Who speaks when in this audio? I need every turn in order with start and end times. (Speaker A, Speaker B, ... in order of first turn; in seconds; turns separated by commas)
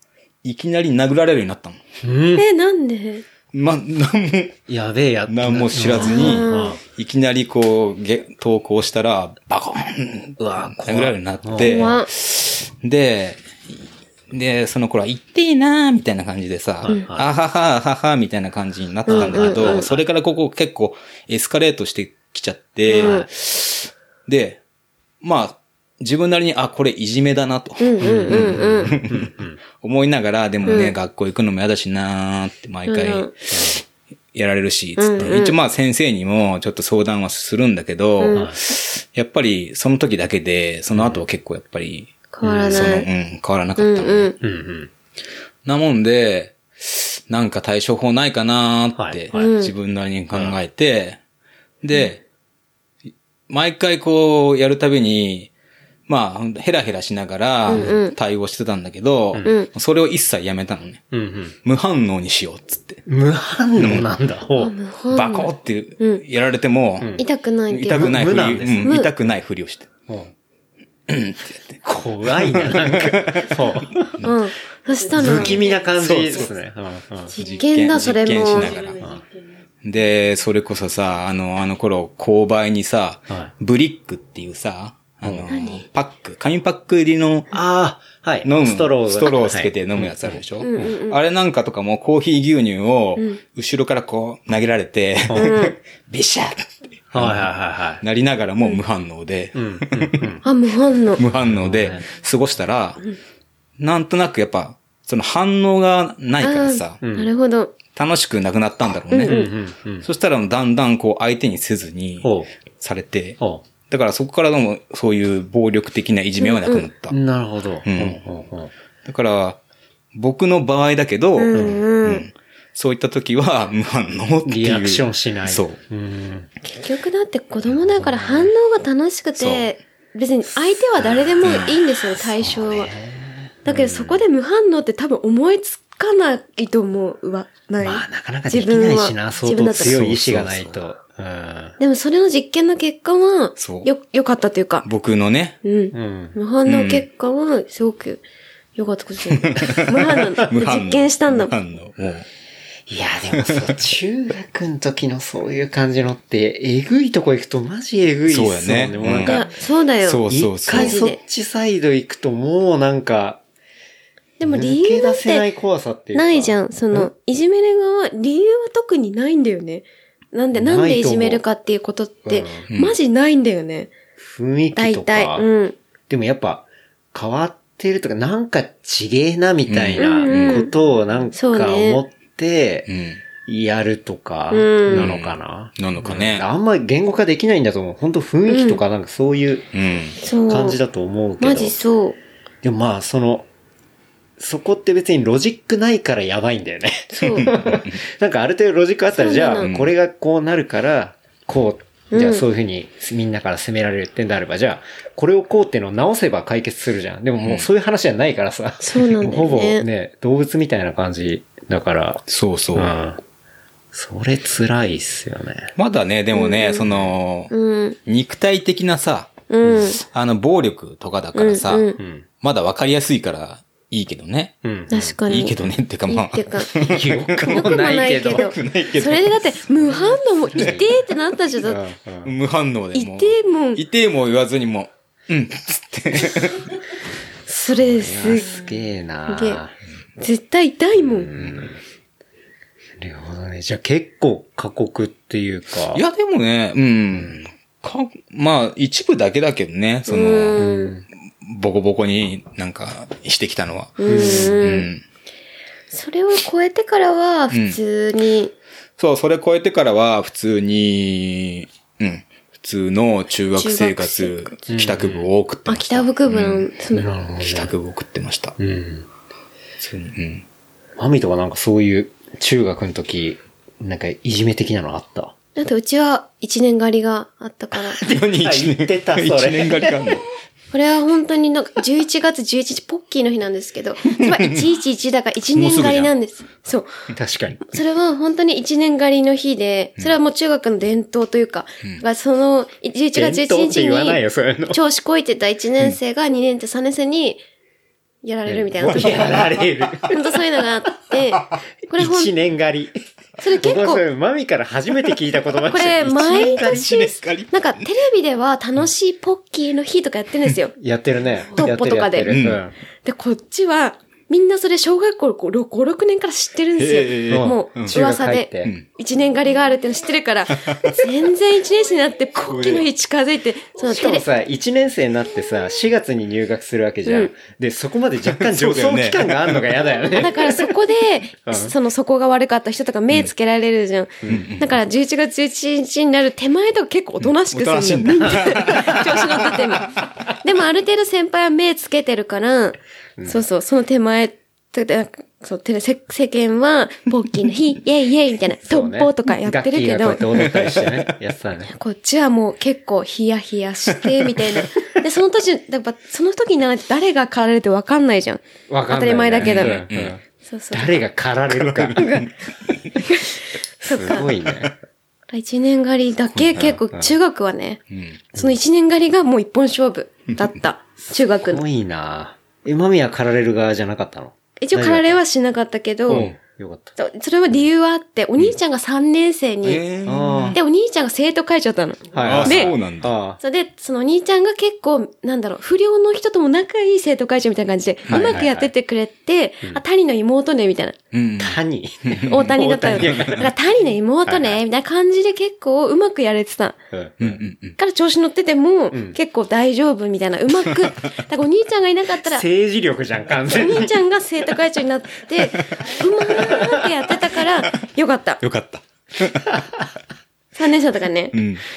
Speaker A: 0.4-1.8, Speaker B: 2.0-2.4, Speaker C: 2.4-3.2, Speaker A: 3.5-4.6, Speaker B: 4.7-6.8, Speaker A: 5.3-13.8, Speaker C: 6.0-6.8, Speaker B: 10.4-11.9, Speaker C: 11.6-12.1, Speaker A: 14.3-24.6, Speaker B: 16.8-17.3, Speaker C: 19.1-19.9, Speaker B: 19.1-20.0, Speaker C: 22.9-23.2, Speaker B: 22.9-23.2, Speaker A: 25.2-33.8, Speaker C: 27.8-29.0, Speaker B: 28.0-29.6, Speaker C: 30.6-30.9, Speaker C: 32.9-33.3, Speaker B: 33.5-33.8, Speaker A: 34.3-42.1, Speaker C: 35.0-35.5, Speaker C: 38.2-38.5, Speaker B: 38.3-38.6, Speaker B: 40.9-41.2, Speaker C: 42.3-43.1, Speaker B: 42.4-42.9, Speaker A: 42.7-44.4, Speaker C: 43.8-44.3, Speaker B: 44.4-44.9, Speaker A: 45.6-51.2, Speaker B: 49.0-49.5, Speaker C: 49.3-49.7, Speaker B: 50.3-50.6, Speaker A: 51.8-52.2, Speaker A: 53.5-55.5, Speaker A: 56.1-61.0, Speaker C: 57.7-58.1, Speaker B: 57.7-57.9, Speaker C: 59.4-59.7, Speaker B: 61.1-61.5, Speaker A: 61.6-63.0, Speaker B: 63.1-64.7, Speaker A: 63.8-64.1, Speaker C: 64.6-65.5, Speaker A: 65.1-67.2, Speaker B: 67.0-67.2, Speaker C: 67.2-68.3, Speaker A: 67.7-69.9, Speaker B: 67.9-69.0, Speaker C: 68.8-69.1, Speaker B: 70.1-70.3, Speaker A: 71.1-71.8, Speaker B: 71.8-74.1, Speaker A: 72.3-73.6, Speaker C: 74.2-75.6, Speaker B: 75.1-77.3, Speaker A: 76.0-76.5, Speaker A: 77.3-79.1, Speaker C: 77.3-78.8, Speaker B: 79.0-79.2, Speaker A: 79.8-87.5, Speaker B: 85.2-85.5, Speaker C: 85.5-85.8, Speaker B: 87.5-90.9, Speaker A: 88.4-100.4, Speaker C: 90.6-91.2, Speaker B: 95.3-95.6, Speaker C: 95.3-95.8, Speaker B: 97.1-98.0, Speaker B: 99.5-100.4, Speaker C: 100.4-101.2, Speaker A: 101.2-103.0, Speaker B: 101.4-102.0, Speaker A: 103.8-107.0, Speaker C: 106.4-107.7, Speaker B: 107.0-107.3, Speaker A: 107.9-109.5, Speaker C: 109.1-109.5, Speaker B: 109.2-110.0, Speaker A: 110.0-117.2, Speaker B: 112.2-112.5, Speaker B: 113.4-113.6, Speaker C: 116.4-116.8, Speaker B: 117.1-118.7, Speaker A: 117.8-118.2, Speaker A: 119.0-119.6, Speaker A: 120.1-125.8, Speaker C: 121.4-122.3, Speaker B: 121.5-121.8, Speaker B: 124.4-126.5, Speaker C: 126.7-132.9, Speaker B: 127.7-128.5, Speaker A: 129.4-129.7, Speaker B: 131.0-131.6, Speaker A: 131.4-131.8, Speaker B: 132.3-134.2, Speaker C: 133.6-140.0, Speaker B: 137.8-141.8, Speaker A: 139.8-140.8, Speaker C: 141.8-144.8, Speaker A: 143.6-143.9, Speaker A: 144.8-145.6, Speaker C: 145.6-148.2, Speaker B: 145.9-146.3, Speaker A: 146.7-147.1, Speaker C: 148.8-151.5, Speaker A: 149.4-152.3, Speaker B: 152.9-159.5, Speaker A: 153.4-153.7, Speaker A: 158.3-159.4, Speaker C: 159.2-161.2, Speaker A: 160.0-161.0, Speaker B: 160.3-163.4, Speaker C: 164.4-165.5, Speaker B: 164.4-167.1, Speaker C: 166.1-173.9, Speaker B: 170.5-171.4, Speaker B: 172.2-172.7, Speaker A: 172.7-173.0, Speaker B: 174.2-175.5, Speaker C: 174.7-175.8, Speaker B: 176.1-182.9, Speaker A: 179.7-180.7, Speaker C: 180.0-180.7, Speaker C: 181.3-182.0, Speaker A: 182.9-183.2, Speaker B: 183.4-189.7, Speaker C: 184.5-185.1, Speaker A: 184.9-186.4, Speaker C: 188.5-188.8, Speaker A: 189.7-190.2, Speaker C: 190.2-190.8, Speaker B: 190.5-191.8, Speaker C: 191.4-192.2, Speaker B: 192.6-193.5, Speaker B: 194.4-212.2, Speaker C: 197.1-197.5, Speaker A: 197.3-198.0, Speaker C: 199.1-199.7, Speaker A: 199.6-199.9, Speaker C: 202.1-202.4, Speaker C: 208.8-209.8, Speaker A: 212.3-212.9, Speaker B: 212.7-213.2, Speaker B: 213.9-215.7, Speaker A: 215.8-217.5, Speaker C: 216.3-216.8, Speaker C: 217.5-218.0, Speaker A: 218.1-219.3, Speaker C: 219.5-220.0, Speaker A: 220.0-221.9, Speaker C: 221.3-222.0, Speaker B: 222.0-222.2, Speaker A: 222.4-224.6, Speaker B: 224.6-225.2, Speaker C: 224.9-225.5, Speaker A: 225.3-229.7, Speaker C: 226.1-226.7, Speaker B: 226.7-228.5, Speaker C: 227.4-231.8, Speaker B: 230.5-230.9, Speaker A: 230.6-230.8, Speaker B: 231.6-232.3, Speaker A: 232.2-236.7, Speaker C: 232.9-233.8, Speaker C: 237.5-238.6, Speaker B: 237.7-239.8, Speaker C: 239.3-239.6, Speaker C: 240.2-241.3, Speaker B: 241.0-241.8, Speaker B: 243.0-246.0, Speaker A: 245.9-250.7, Speaker B: 247.1-247.4, Speaker C: 250.1-250.9, Speaker B: 250.6-251.0, Speaker A: 251.4-255.0, Speaker C: 254.0-254.9, Speaker B: 254.1-254.6, Speaker C: 255.9-258.5, Speaker A: 257.5-257.8, Speaker A: 259.0-266.7, Speaker C: 263.5-264.8, Speaker B: 264.7-265.3, Speaker C: 265.7-267.1, Speaker B: 266.9-267.7, Speaker A: 267.4-268.6, Speaker B: 268.6-269.1, Speaker A: 269.8-270.4, Speaker B: 271.0-275.3, Speaker C: 275.6-278.0, Speaker A: 278.0-280.2, Speaker B: 278.0-280.2, Speaker C: 280.7-286.9, Speaker A: 284.1-284.6, Speaker A: 285.5-286.1, Speaker B: 287.1-287.6, Speaker C: 287.7-297.4, Speaker B: 293.1-294.8, Speaker C: 298.2-299.4, Speaker B: 298.4-300.3, Speaker A: 298.9-300.0, Speaker C: 300.1-302.3, Speaker B: 301.9-302.9, Speaker C: 303.4-304.0, Speaker B: 303.5-306.8, Speaker C: 305.7-310.7, Speaker A: 306.0-307.8, Speaker B: 310.8-312.7, Speaker C: 311.5-312.4, Speaker A: 312.3-312.6, Speaker C: 313.0-324.2, Speaker A: 316.8-317.9, Speaker B: 317.3-318.7, Speaker A: 320.5-321.0, Speaker A: 322.4-322.9, Speaker B: 323.8-330.7, Speaker C: 327.1-327.3, Speaker A: 328.3-329.7, Speaker C: 330.1-350.3, Speaker B: 331.4-331.7, Speaker B: 334.2-334.5, Speaker A: 334.3-334.8, Speaker A: 337.2-340.0, Speaker B: 343.2-343.4, Speaker B: 348.6-351.7, Speaker A: 350.4-351.1, Speaker C: 351.7-359.8, Speaker B: 358.7-362.0, Speaker A: 359.4-360.1, Speaker C: 360.4-360.9, Speaker A: 361.5-362.3, Speaker C: 361.9-362.3, Speaker C: 363.1-364.3, Speaker B: 363.9-364.7, Speaker C: 365.3-367.8, Speaker A: 366.3-366.8, Speaker B: 366.7-367.1, Speaker A: 367.9-368.2, Speaker C: 368.3-371.6, Speaker B: 371.4-375.2, Speaker C: 374.6-376.3, Speaker B: 376.1-376.9, Speaker A: 376.1-376.4, Speaker C: 377.0-379.8, Speaker A: 379.6-380.6, Speaker B: 380.0-380.6, Speaker C: 380.5-382.7, Speaker B: 382.1-383.4, Speaker A: 382.2-383.1, Speaker C: 383.4-390.9, Speaker A: 388.1-388.4, Speaker B: 388.1-388.7, Speaker A: 391.1-392.4, Speaker B: 391.4-393.5, Speaker C: 392.2-396.8, Speaker B: 394.2-394.6, Speaker B: 396.9-397.4, Speaker A: 397.2-397.8, Speaker C: 397.8-402.4, Speaker B: 398.9-399.2, Speaker B: 402.2-403.9, Speaker C: 403.5-408.4, Speaker A: 408.4-409.6, Speaker C: 410.5-411.4, Speaker A: 411.3-411.6